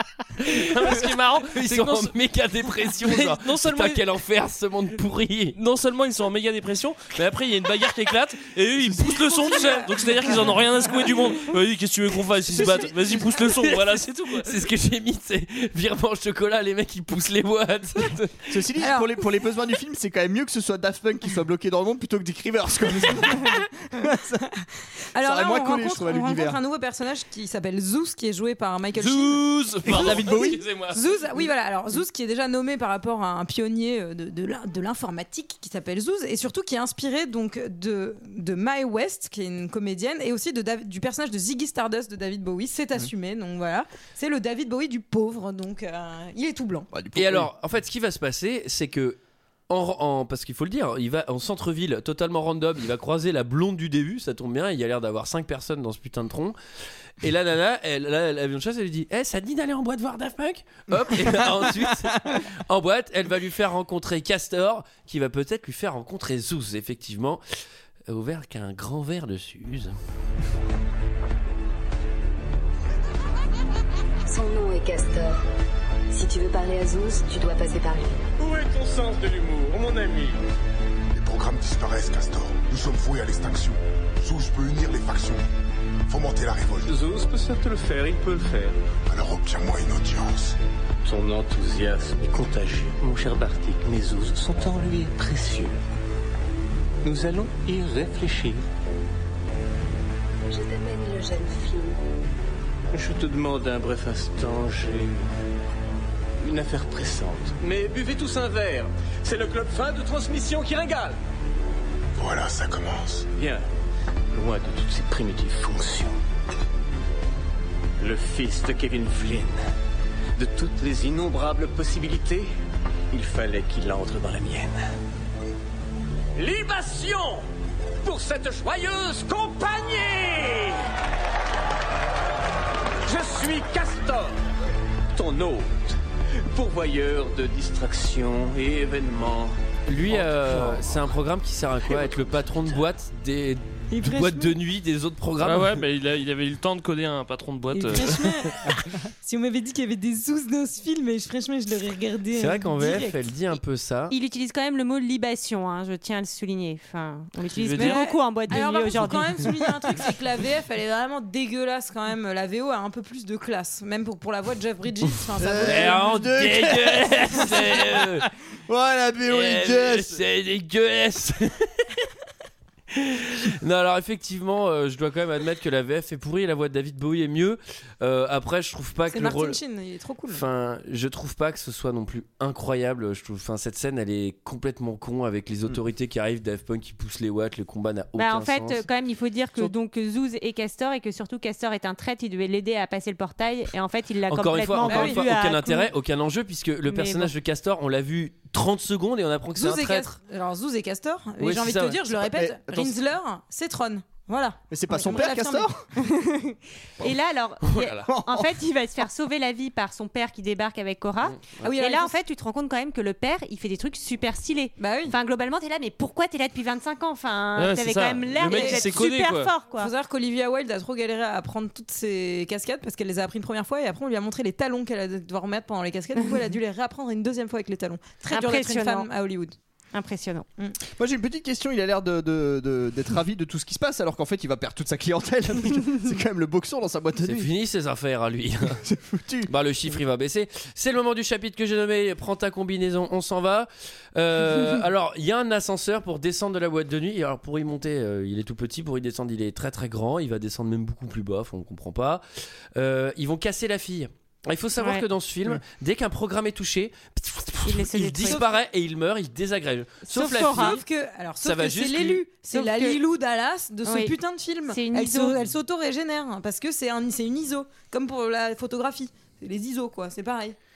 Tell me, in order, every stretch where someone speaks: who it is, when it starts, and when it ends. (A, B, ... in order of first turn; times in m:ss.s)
0:00.4-0:05.6 A
0:00.5-0:02.1 B
0:03.0-0:04.0 B
0:05.6-0:14.6 B
0:08.8-0:09.4 C
0:12.5-0:13.2 C
0:14.4-0:18.6 A
0:18.5-0:24.6 C
0:18.8-0:19.2 D
0:25.1-0:46.9 D
0:25.2-0:26.6 C
0:29.0-0:31.0 B
0:29.9-0:30.6 C
0:46.9-0:47.5 C
0:47.2-0:49.2 A
0:49.7-0:56.6 A
0:57.2-1:07.4 A
1:01.0-1:02.4 C
1:08.1-1:10.0 A
1:14.3-1:15.4 E
1:16.1-1:18.2 E
1:18.4-1:20.4 F
1:21.2-1:25.4 G
1:26.1-1:26.9 G
1:26.9-1:28.8 F
1:29.1-1:30.6 G
1:31.0-1:35.8 F
1:37.0-1:38.6 F
1:40.5-1:42.0 E
1:42.9-1:45.3 F
1:46.4-1:51.2 F
1:52.2-1:53.3 G
1:53.4-1:53.6 F
1:54.3-1:56.2 F
1:58.0-1:59.6 F
2:00.4-2:02.5 F
2:03.1-2:04.8 F
2:06.4-2:07.5 F
2:08.0-2:10.8 F
2:13.0-2:14.4 F
2:15.1-2:15.8 F
2:16.5-2:19.5 F
2:19.9-2:25.8 A
2:23.9-2:24.5 D
2:25.4-2:28.5 B
2:27.7-2:33.2 D
2:32.3-2:34.2 A
2:34.1-2:39.4 H
2:37.5-2:38.0 B
2:37.7-2:46.1 D
2:45.4-2:50.2 C
2:45.6-2:48.3 A
2:49.3-2:51.9 A
2:52.9-2:59.6 A
2:59.1-3:00.4 D
3:00.3-3:08.9 A
3:08.2-3:15.9 H
3:14.3-3:20.1 A
3:14.9-3:15.3 D
3:16.9-3:17.3 H
3:19.6-3:25.7 D
3:21.4-3:22.0 A
3:22.1-3:23.0 C
3:24.7-3:25.9 C
3:26.0-3:39.9 H
3:27.6-3:28.1 A
3:28.1-3:28.5 C
3:31.4-3:31.7 A
3:31.6-3:32.2 D
3:34.8-3:35.2 D
3:37.6-3:39.5 B
3:38.4-3:39.0 D
3:39.7-3:49.6 D
3:48.3-3:49.1 H
3:49.9-3:50.5 H
3:50.9-3:57.5 C
3:57.2-3:58.8 A
3:58.8-3:59.5 C
3:59.5-4:12.2 A
4:12.8-4:20.8 A
4:14.8-4:15.0 H
4:17.6-4:18.4 H
4:20.1-4:20.8 H
4:20.4-4:30.6 D
4:21.4-4:22.2 A
4:22.5-4:23.0 H
4:23.8-4:24.2 H
4:24.7-4:25.4 H